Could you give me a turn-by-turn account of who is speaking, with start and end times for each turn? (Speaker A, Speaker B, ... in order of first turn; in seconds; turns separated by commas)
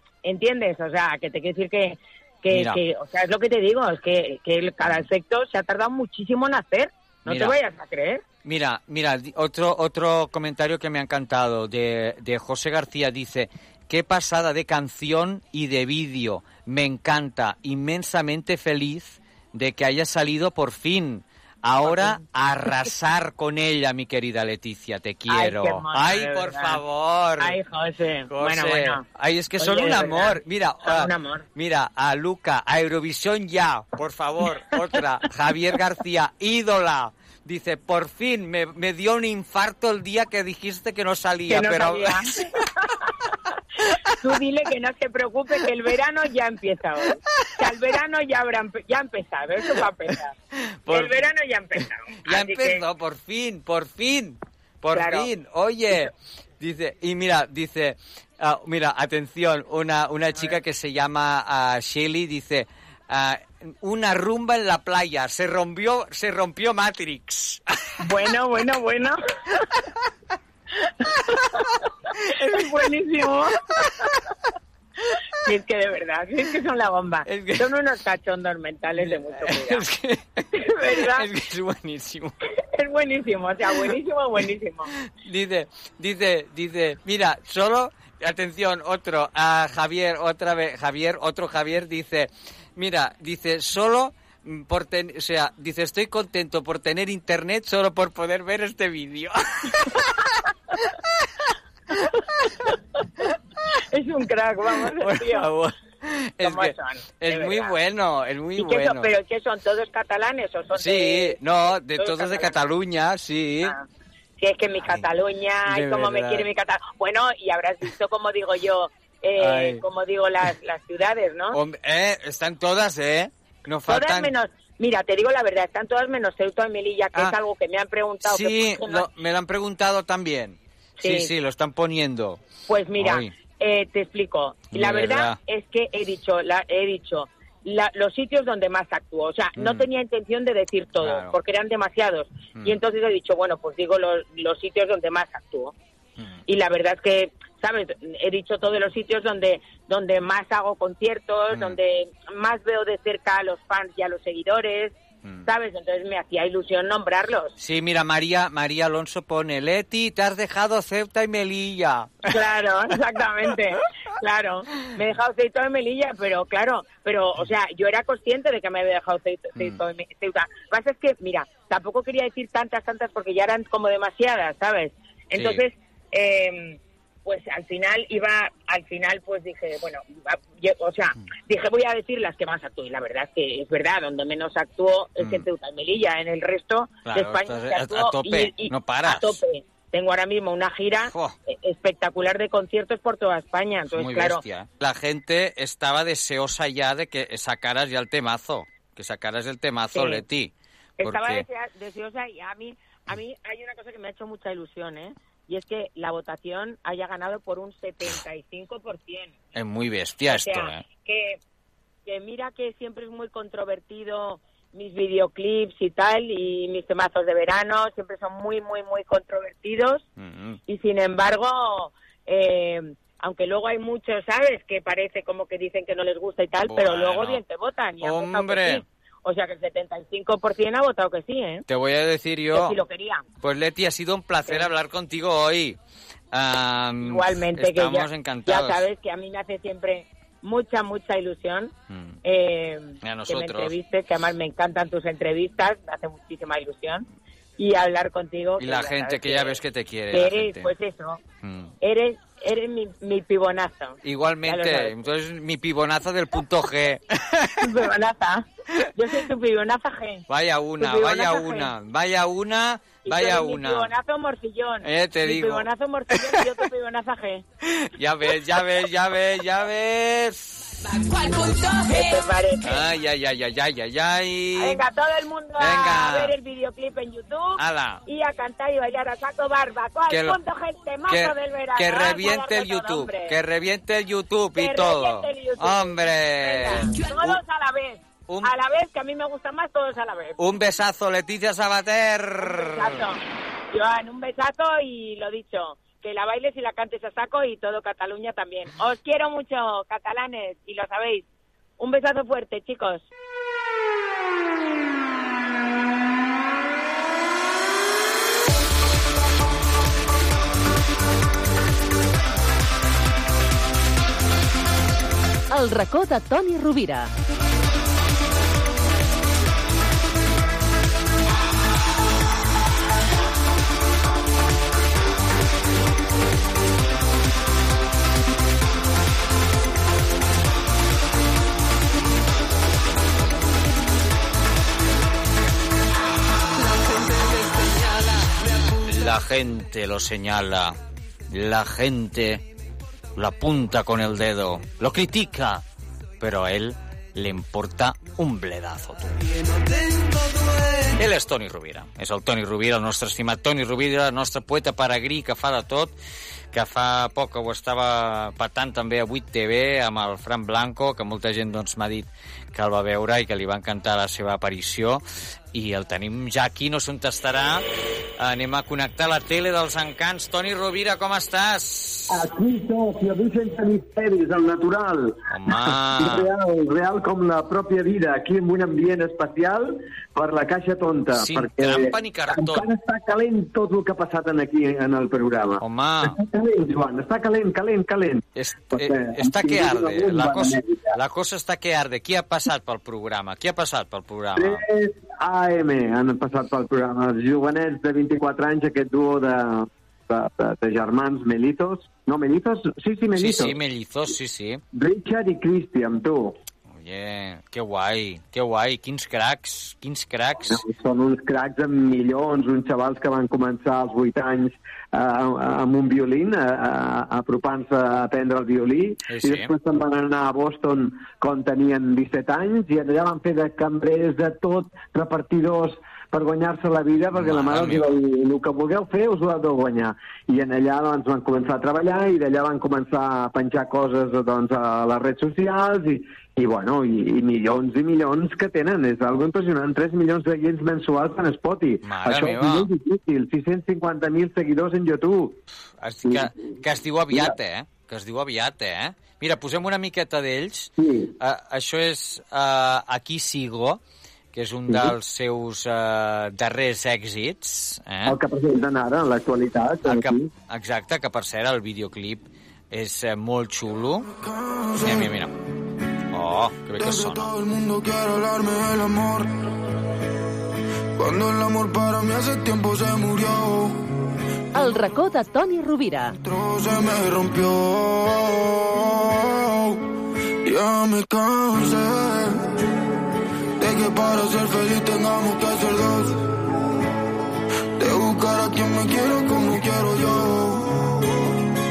Speaker A: 0.2-8.2, Speaker B: 2.5-2.8, Speaker B: 7.2-7.5, Speaker B: 8.4-27.6, Speaker A: 21.9-22.2, Speaker A: 25.3-26.8, Speaker A: 27.4-29.0, Speaker B: 28.3-42.3, Speaker A: 29.6-31.4, Speaker A: 41.5-42.5, Speaker A: 44.2-50.3, Speaker B: 50.7-51.2, Speaker A: 50.9-52.8, Speaker B: 52.2-67.6, Speaker A: 54.9-55.3, Speaker A: 68.0-69.2, Speaker A: 71.1-71.6, Speaker B: 72.3-72.7, Speaker A: 72.3-74.0, Speaker A: 75.4-79.8, Speaker B: 77.3-77.7, Speaker B: 79.0-82.3, Speaker A: 80.5-81.2, Speaker A: 82.8-84.9, Speaker B: 85.2-100.2, Speaker A: 103.9-105.5, Speaker B: 105.0-109.1, Speaker A: 106.4-107.7, Speaker A: 108.6-111.4, Speaker B: 110.7-113.7, Speaker A: 112.0-112.5, Speaker A: 114.4-121.6, Speaker B: 115.7-116.5, Speaker B: 119.4-119.8, Speaker B: 121.5-124.3, Speaker A: 123.9-129.0, Speaker B: 128.2-132.4, Speaker A: 131.0-131.3, Speaker A: 132.7-145.7, Speaker B: 133.0-133.3, Speaker B: 134.7-135.4, Speaker B: 139.6-139.8, Speaker B: 141.0-141.3, Speaker A: 146.5-157.5, Speaker B: 151.5-151.8, Speaker B: 157.6-162.3, Speaker A: 162.3-194.4, Speaker B: 175.3-175.6, Speaker B: 185.2-185.4, Speaker B: 187.1-189.4, Speaker B: 191.1-191.3, Speaker B: 193.9-201.4, Speaker A: 199.9-200.2, Speaker A: 201.0-209.3, Speaker B: 209.5-210.8, Speaker A: 210.3-211.4, Speaker A: 212.1-220.0, Speaker B: 220.2-220.6, Speaker A: 220.7-231.6, Speaker B: 226.6-227.4, Speaker B: 228.0-228.8, Speaker B: 231.7-232.8, Speaker A: 232.5-233.2, Speaker B: 233.4-235.8, Speaker B: 236.3-238.8, Speaker A: 237.0-241.7, Speaker B: 241.9-242.2, Speaker A: 242.2-247.1, Speaker B: 243.0-243.7, Speaker A: 247.6-249.6, Speaker B: 248.6-250.7, Speaker A: 250.1-251.2, Speaker B: 251.4-251.7, Speaker A: 251.8-254.9, Speaker B: 254.0-257.7, Speaker A: 257.6-260.2, Speaker B: 260.3-263.9, Speaker A: 260.8-261.7, Speaker A: 263.0-267.4, Speaker B: 264.8-266.4, Speaker B: 267.6-270.8, Speaker A: 271.7-272.8, Speaker B: 272.6-274.8, Speaker A: 274.6-283.3, Speaker B: 275.6-276.3, Speaker B: 277.6-278.0, Speaker B: 280.1-280.4, Speaker B: 281.1-287.4, Speaker A: 284.6-290.4, Speaker B: 290.4-293.0, Speaker A: 292.4-301.2, Speaker A: 301.8-303.1, Speaker C: 315.5-317.1, Speaker B: 338.8-340.8, Speaker B: 341.3-342.4, Speaker B: 343.1-345.6, Speaker B: 346.2-349.2, Speaker B: 350.9-355.9, Speaker B: 356.5-367.6, Speaker B: 368.2-372.2, Speaker D: 372.1-390.9, Speaker B: 375.3-376.3, Speaker B: 381.1-382.7, Speaker B: 385.6-386.2, Speaker B: 388.4-394.6, Speaker D: 394.4-403.5, Speaker B: 403.1-404.6, Speaker D: 404.7-406.3, Speaker B: 406.7-410.6, Speaker D: 410.4-445.4, Speaker B: 419.1-419.5, Speaker B: 427.1-428.0, Speaker B: 441.8-442.7, Speaker B: 445.8-453.8, Speaker D: 446.1-446.3, Speaker D: 450.8-451.1, Speaker B: 454.3-458.2, Speaker D: 454.7-454.9, Speaker D: 458.1-460.3, Speaker B: 459.8-464.1, Speaker E: 464.2-465.1, Speaker B: 464.8-465.3, Speaker B: 466.1-467.4, Speaker E: 466.8-469.3, Speaker E: 470.9-473.9, Speaker C: 474.5-476.1, Speaker E: 476.2-479.8, Speaker E: 480.4-482.5, Speaker E: 483.6-486.3, Speaker E: 487.8-491.0